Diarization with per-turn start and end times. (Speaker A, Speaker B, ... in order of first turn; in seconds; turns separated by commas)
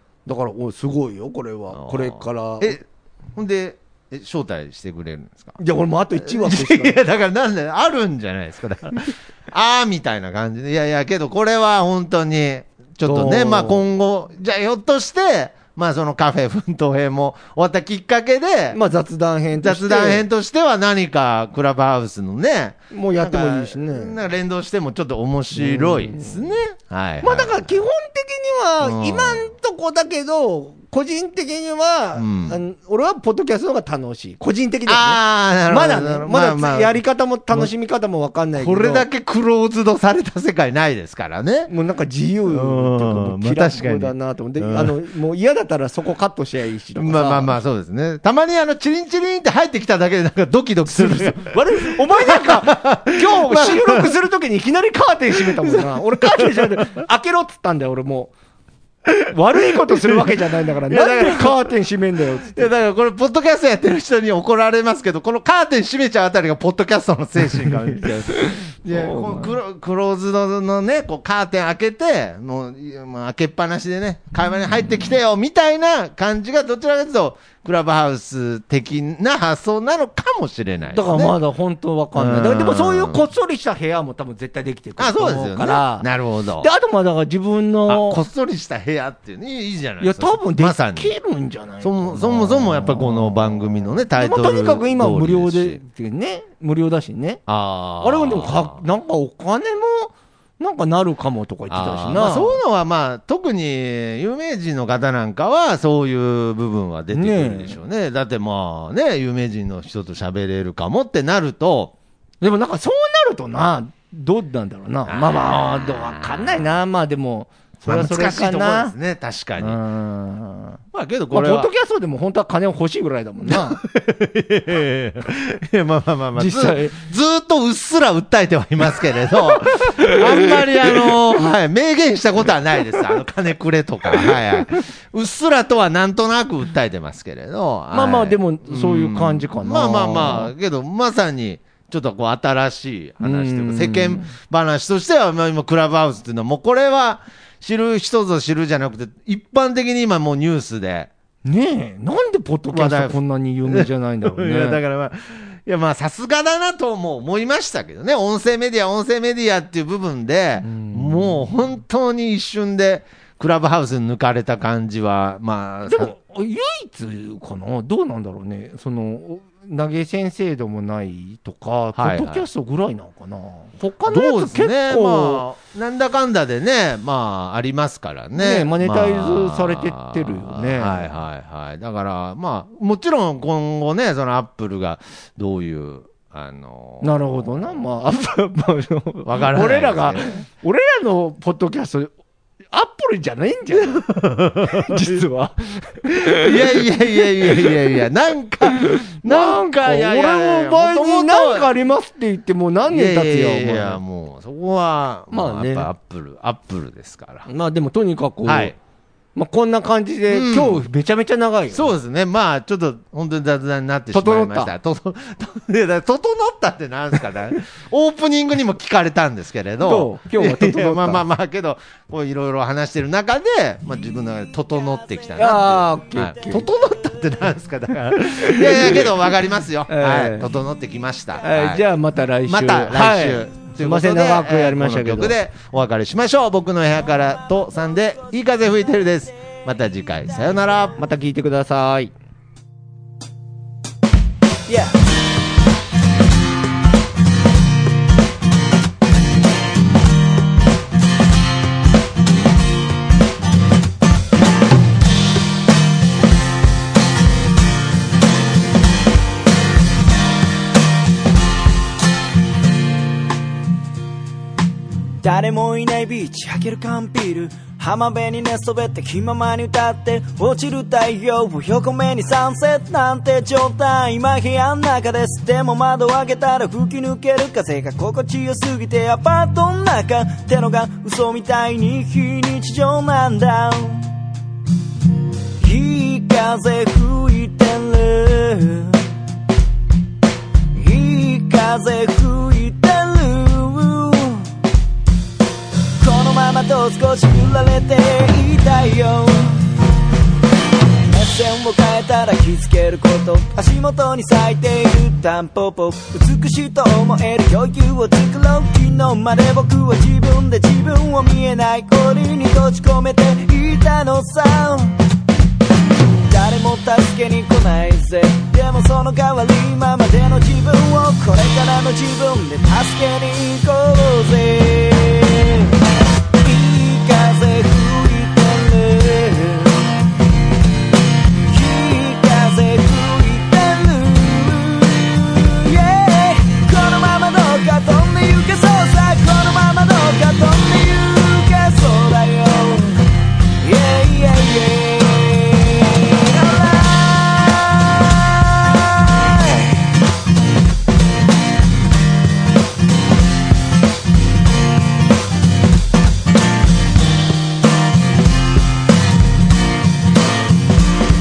Speaker A: 0.3-2.8, Speaker B: 1.7-2.8, Speaker B: 3.4-5.6, Speaker A: 5.6-7.0, Speaker B: 6.2-18.8, Speaker A: 13.0-13.8, Speaker A: 18.7-20.2, Speaker B: 19.6-27.8, Speaker A: 22.9-24.2, Speaker A: 25.6-26.5, Speaker A: 27.2-39.0, Speaker B: 28.8-29.5, Speaker B: 32.2-32.6, Speaker B: 34.9-37.0, Speaker B: 38.6-41.7, Speaker A: 41.7-47.5, Speaker B: 42.5-45.0, Speaker B: 47.0-54.1, Speaker A: 50.9-58.3, Speaker B: 55.3-57.0, Speaker A: 59.1-62.7, Speaker B: 60.9-61.8, Speaker B: 62.5-81.4, Speaker A: 67.4-69.5, Speaker A: 80.9-86.1, Speaker B: 82.2-83.2, Speaker B: 85.0-86.7, Speaker A: 86.6-88.2, Speaker B: 87.9-91.1, Speaker A: 90.0-97.4, Speaker B: 91.8-95.8, Speaker B: 97.5-98.8, Speaker A: 98.0-102.6, Speaker B: 101.7-111.9, Speaker A: 107.1-107.8, Speaker A: 112.4-119.0, Speaker B: 115.1-116.7, Speaker B: 117.8-119.8, Speaker A: 119.6-120.8, Speaker B: 120.9-121.7, Speaker A: 121.3-123.8, Speaker B: 123.5-151.1, Speaker A: 126.4-127.0, Speaker A: 129.3-131.1, Speaker A: 137.9-140.5, Speaker A: 143.2-144.3, Speaker A: 151.4-154.8, Speaker B: 152.7-166.2, Speaker A: 160.6-161.5, Speaker A: 165.9-175.4, Speaker B: 172.0-172.5, Speaker B: 174.1-187.7, Speaker A: 178.4-181.1, Speaker A: 187.0-192.1, Speaker B: 189.2-190.4, Speaker A: 192.7-197.8, Speaker B: 193.7-195.2, Speaker B: 196.2-201.7, Speaker A: 198.6-204.0, Speaker B: 202.9-207.5, Speaker A: 205.3-205.9, Speaker A: 207.5-208.8, Speaker B: 208.4-208.8, Speaker A: 209.3-211.9, Speaker B: 210.3-210.8, Speaker B: 211.7-231.8, Speaker A: 214.1-214.7, Speaker A: 219.8-221.2, Speaker A: 225.4-226.7, Speaker A: 228.3-229.3, Speaker A: 229.9-230.5, Speaker A: 231.4-235.4, Speaker B: 232.5-241.0, Speaker A: 241.0-242.1, Speaker C: 244.7-245.0, Speaker C: 265.2-284.1, Speaker C: 285.6-289.1, Speaker C: 290.7-294.5, Speaker C: 296.0-299.6, Speaker C: 301.1-315.0, Speaker C: 316.2-325.7, Speaker C: 326.4-330.0, Speaker C: 331.5-343.1, Speaker C: 343.6-349.8